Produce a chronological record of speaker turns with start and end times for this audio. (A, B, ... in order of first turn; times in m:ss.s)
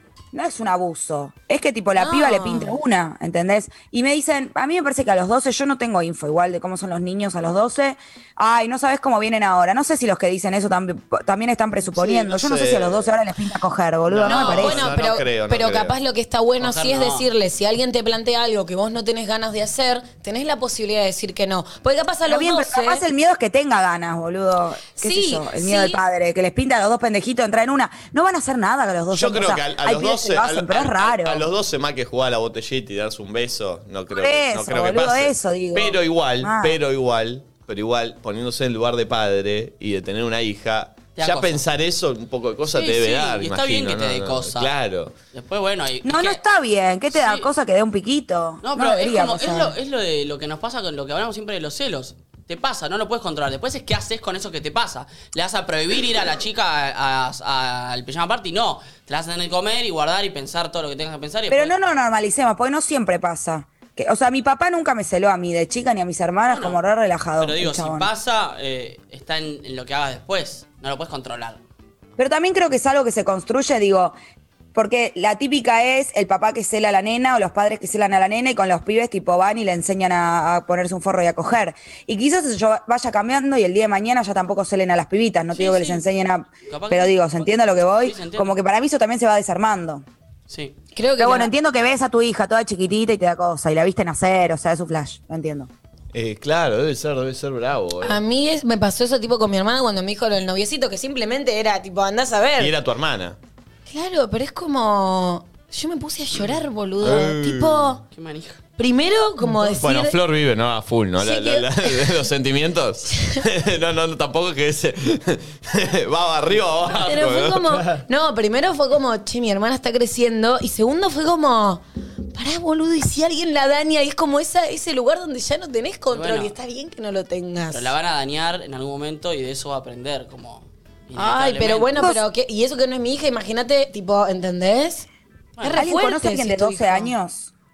0:00.3-0:14.9 A
0:02.0-0:02.8 B
0:11.9-0:13.1 C
0:14.1-0:15.9 C
0:14.2-0:23.0 B
0:16.6-0:17.3 D
0:22.2-0:31.5 A
0:25.0-0:26.0 B
0:29.1-0:45.1 C
0:34.1-0:36.8 A
0:41.2-0:41.6 D
0:42.7-0:44.7 D
0:45.3-0:46.4 D
0:46.0-0:49.7 A
0:47.1-0:47.5 D
0:48.6-1:01.7 D
1:01.5-1:08.1 A
1:06.5-1:06.8 D
1:07.4-1:11.6 D
1:12.2-1:14.1 A
1:14.7-1:30.0 A
1:25.5-1:26.0 D
1:26.7-1:28.5 D
1:30.5-1:30.7 D
1:31.0-1:31.5 B
1:31.2-1:35.7 A
1:36.1-1:38.2 C
1:38.0-1:42.7 B
1:42.6-1:43.4 C
1:43.9-1:48.0 B
1:47.0-1:47.9 C
1:48.1-1:48.6 D
1:48.8-1:50.2 B
1:49.7-1:57.8 C
1:51.2-1:52.2 B
1:56.9-2:01.8 B
2:02.3-2:07.9 B
2:06.1-2:06.5 D
2:07.7-2:12.0 D
2:11.2-2:15.1 B
2:15.6-2:17.1 B
2:15.7-2:17.5 A